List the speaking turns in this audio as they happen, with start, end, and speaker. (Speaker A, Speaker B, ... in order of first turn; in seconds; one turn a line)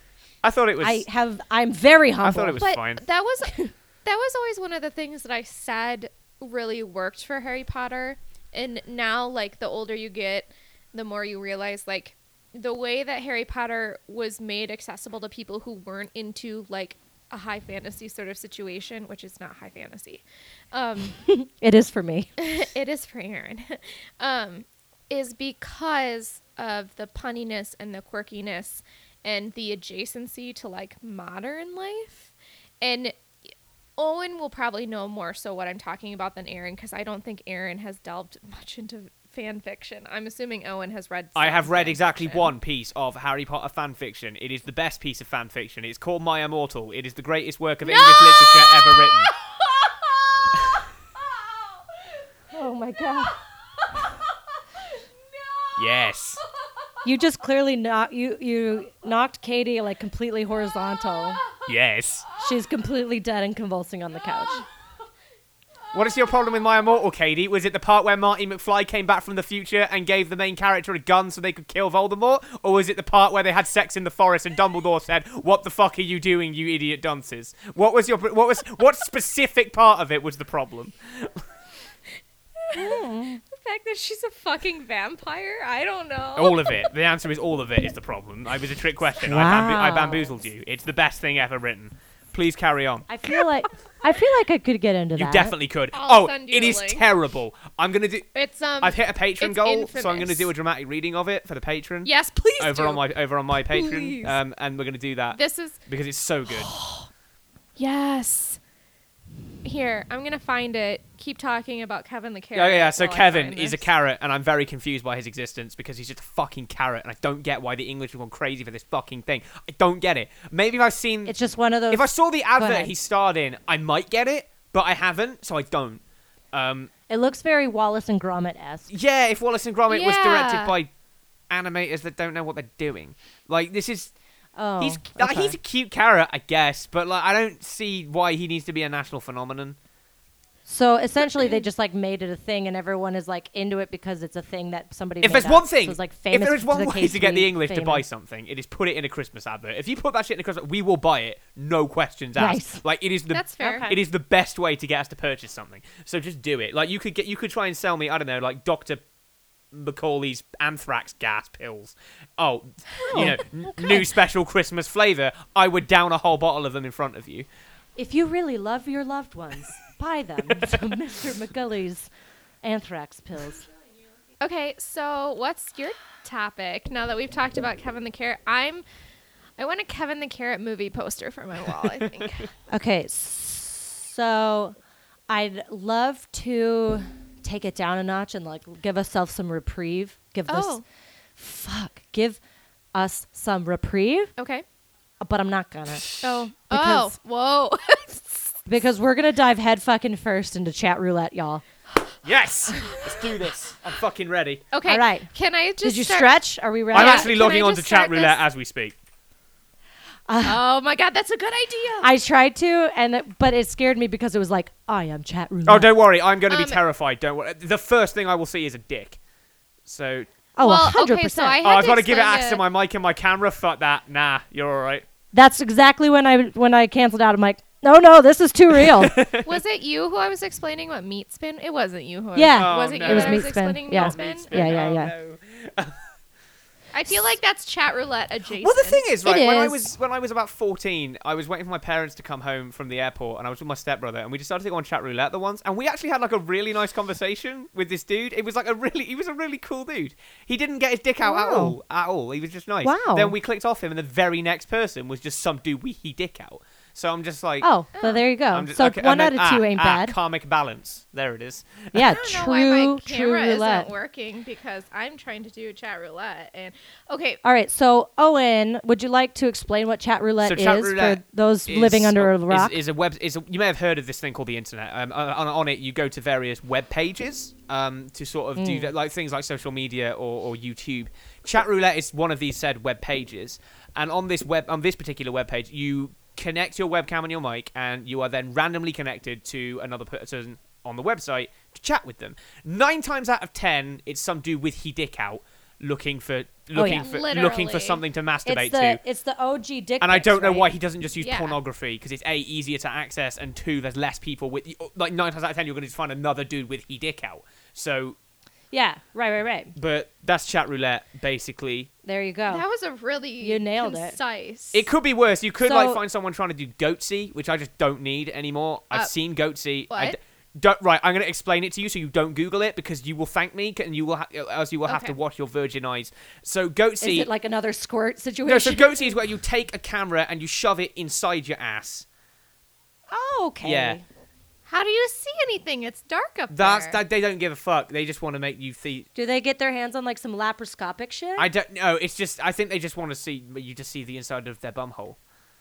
Speaker A: 0.4-1.0
Speaker B: 0.8-2.6
Speaker A: 2.2-3.0
Speaker C: 2.6-21.2
Speaker B: 3.4-3.7
Speaker B: 21.2-22.4
Speaker C: 22.4-33.2
Speaker C: 34.0-42.5
Speaker A: 41.4-49.3
Speaker C: 47.8-51.8
Speaker B: 52.5-53.4
Speaker C: 54.8-56.1
Speaker A: 55.8-56.4
Speaker B: 57.0-61.4
Speaker A: 61.6-62.3
Speaker B: 62.4-64.6
Speaker A: 65.9-81.4
Speaker C: 66.0-66.6
Speaker C: 82.6-86.9
Speaker B: 82.7-83.4
Speaker A: 86.3-93.1
Speaker B: 89.2-90.4
Speaker B: 93.1-95.5
Speaker A: 95.2-106.7
Speaker C: 95.9-97.0
Speaker C: 98.3-100.5
Speaker C: 102.0-103.0
Speaker C: 103.7-104.4
Speaker C: 105.3-105.8
Speaker C: 106.5-107.1
Speaker C: 107.8-108.6
Speaker C: 109.6-113.9
Speaker A: 112.5-121.3
Speaker B: 121.2-122.9
Speaker A: 121.9-126.0
Speaker A: 126.5-126.9
Speaker B: 127.1-128.9
Speaker A: 128.9-130.9
Speaker C: 129.9-130.7
Speaker A: 131.5-134.1
Speaker B: 134.6-135.6
Speaker A: 134.8-139.8
Speaker B: 140.7-148.0
Speaker A: 145.2-159.0
Speaker B: 152.3-152.8
Speaker C: 153.3-154.0
Speaker A: 159.7-167.5
Speaker B: 163.1-164.1
Speaker B: 167.9-172.1
Speaker B: 172.6-173.6
Speaker C: 174.4-178.8
Speaker C: 179.6-182.5
Speaker B: 182.7-184.8
Speaker B: 185.3-190.8
Speaker C: 190.5-190.8
Speaker B: 191.4-192.4
Speaker B: 192.9-194.3
Speaker C: 194.4-194.6
Speaker B: 195.2-197.1
Speaker C: 196.2-198.5
Speaker B: 198.7-201.6
Speaker A: 202.2-204.6
Speaker C: 204.7-206.4
Speaker B: 204.8-205.3
Speaker B: 205.8-207.5
Speaker C: 206.9-208.4
Speaker A: 206.9-208.9
Speaker B: 210.3-210.6
Speaker C: 210.4-212.1
Speaker B: 212.0-215.9
Speaker A: 215.7-219.2
Speaker C: 216.5-216.8
Speaker A: 219.8-220.3
Speaker B: 220.6-221.6
Speaker C: 220.6-222.6
Speaker A: 221.6-225.0
Speaker B: 225.3-229.1
Speaker A: 228.8-229.5
Speaker C: 229.4-234.9
Speaker B: 232.3-235.1
Speaker A: 232.6-236.0
Speaker C: 236.9-239.0
Speaker A: 238.6-257.7
Speaker B: 239.2-239.8
Speaker B: 251.2-251.8
Speaker B: 252.8-253.3
Speaker B: 257.6-260.1
Speaker C: 257.9-258.2
Speaker A: 258.5-262.2
Speaker B: 261.9-263.9
Speaker C: 262.1-267.4
Speaker B: 267.4-272.8
Speaker A: 270.4-299.0
Speaker B: 278.6-278.9
Speaker B: 296.7-297.1
Speaker C: 296.9-298.0
Speaker B: 298.4-300.7
Speaker A: 300.0-308.2
Speaker C: 301.2-301.6
Speaker B: 308.7-309.7
Speaker A: 309.8-311.9
Speaker B: 312.0-312.6
Speaker C: 312.5-314.9
Speaker B: 313.4-314.2
Speaker A: 314.7-327.3
Speaker B: 315.6-316.0
Speaker C: 319.9-320.2
Speaker C: 324.9-325.1
Speaker B: 327.0-329.2
Speaker A: 328.4-332.1
Speaker B: 333.1-334.0
Speaker A: 333.6-334.0
Speaker C: 334.7-337.0
Speaker A: 336.5-339.1
Speaker B: 339.1-341.5
Speaker A: 341.4-345.2